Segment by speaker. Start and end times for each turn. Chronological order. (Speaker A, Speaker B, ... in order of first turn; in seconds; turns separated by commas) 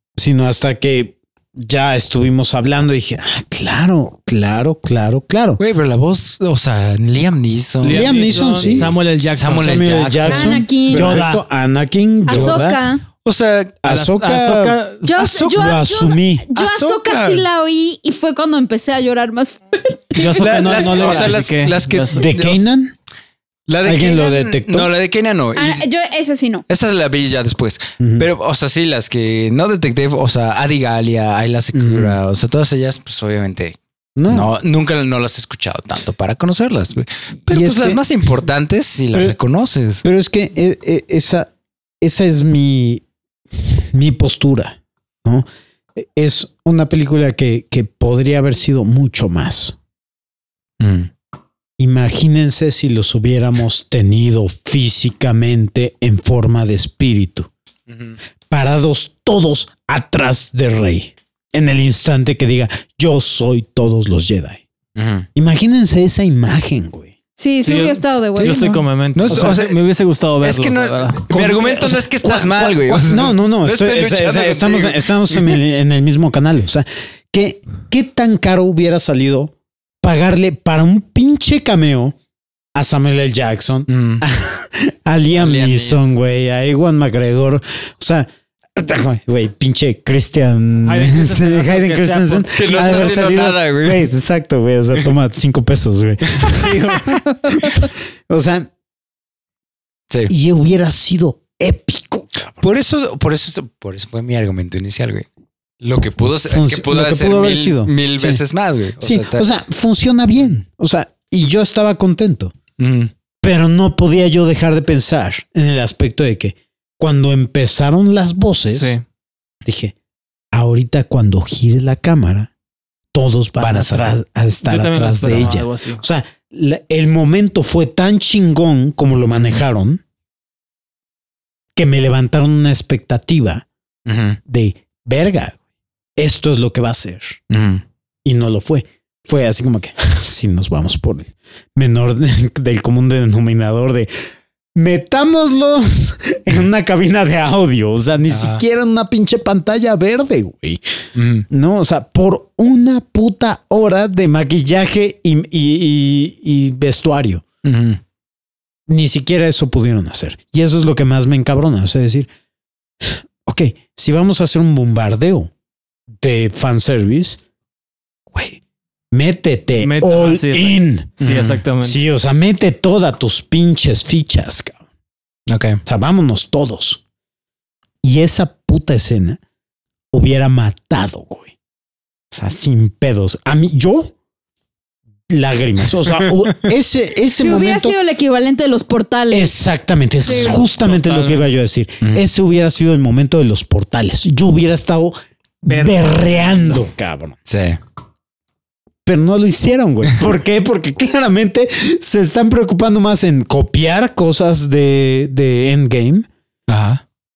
Speaker A: 0.2-5.6, Speaker B: 5.6-11.2, Speaker C: 7.8-11.4, Speaker A: 7.8-8.9, Speaker A: 9.6-12.8, Speaker D: 10.3-11.1, Speaker D: 12.3-13.0, Speaker B: 13.2-13.8, Speaker A: 13.8-14.8, Speaker C: 13.8-15.1, Speaker D: 15.0-21.1, Speaker B: 15.1-15.8, Speaker A: 15.6-16.5, Speaker B: 16.5-17.4, Speaker C: 20.1-22.3, Speaker B: 20.3-22.6, Speaker A: 22.1-22.9, Speaker B: 23.7-25.8, Speaker A: 23.8-24.9, Speaker D: 25.6-26.6, Speaker B: 26.7-33.8, Speaker A: 28.0-28.3, Speaker A: 31.7-32.1, Speaker A: 34.1-34.5, Speaker B: 34.3-40.0, Speaker A: 37.4-38.0, Speaker A: 40.0-41.5, Speaker A: 42.0-43.0, Speaker A: 43.6-49.8, Speaker B: 50.8-51.1, Speaker A: 51.8-57.5, Speaker B: 57.9-58.2, Speaker A: 58.5-64.6, Speaker B: 64.9-65.3, Speaker A: 65.3-67.1, Speaker D: 67.4-68.7, Speaker C: 67.6-71.2, Speaker A: 68.6-69.5, Speaker B: 69.1-69.8, Speaker B: 70.4-75.6, Speaker A: 71.3-82.1, Speaker A: 82.7-98.7, Speaker B: 83.9-84.2, Speaker B: 85.3-86.1, Speaker C: 90.8-93.2, Speaker B: 92.5-94.1, Speaker C: 96.4-97.2, Speaker A: 100.3-102.6, Speaker B: 102.6-105.3, Speaker B: 105.8-109.5, Speaker A: 106.5-108.4, Speaker A: 109.0-112.5, Speaker B: 112.8-113.1, Speaker A: 113.4-118.9, Speaker C: 118.7-119.0, Speaker A: 119.6-119.9, Speaker A: 120.5-122.5, Speaker A: 123.1-130.0, Speaker B: 123.6-124.1, Speaker C: 124.6-126.0, Speaker B: 129.3-129.6, Speaker A: 131.8-133.7, Speaker B: 134.1-134.4, Speaker A: 134.4-135.6, Speaker A: 136.2-137.4, Speaker B: 137.5-137.8, Speaker A: 138.2-144.1, Speaker A: 144.7-150.8, Speaker B: 148.3-148.6, Speaker B: 151.1-151.5, Speaker A: 151.5-157.4, Speaker B: 157.6-158.0, Speaker A: 158.9-162.3, Speaker A: 163.0-165.5, Speaker A: 166.2-167.4, Speaker A: 169.1-171.1, Speaker C: 169.8-172.0, Speaker B: 171.2-171.6, Speaker A: 171.8-174.8, Speaker B: 175.5-175.8, Speaker A: 175.8-177.0, Speaker A: 178.0-179.4, Speaker A: 180.1-181.5, Speaker A: 182.3-184.1, Speaker A: 185.3-187.9, Speaker D: 187.4-189.6, Speaker A: 189.3-197.3, Speaker D: 190.2-190.6, Speaker C: 190.2-191.4, Speaker C: 195.7-196.6, Speaker B: 197.4-197.8, Speaker A: 199.1-206.3, Speaker B: 206.7-207.0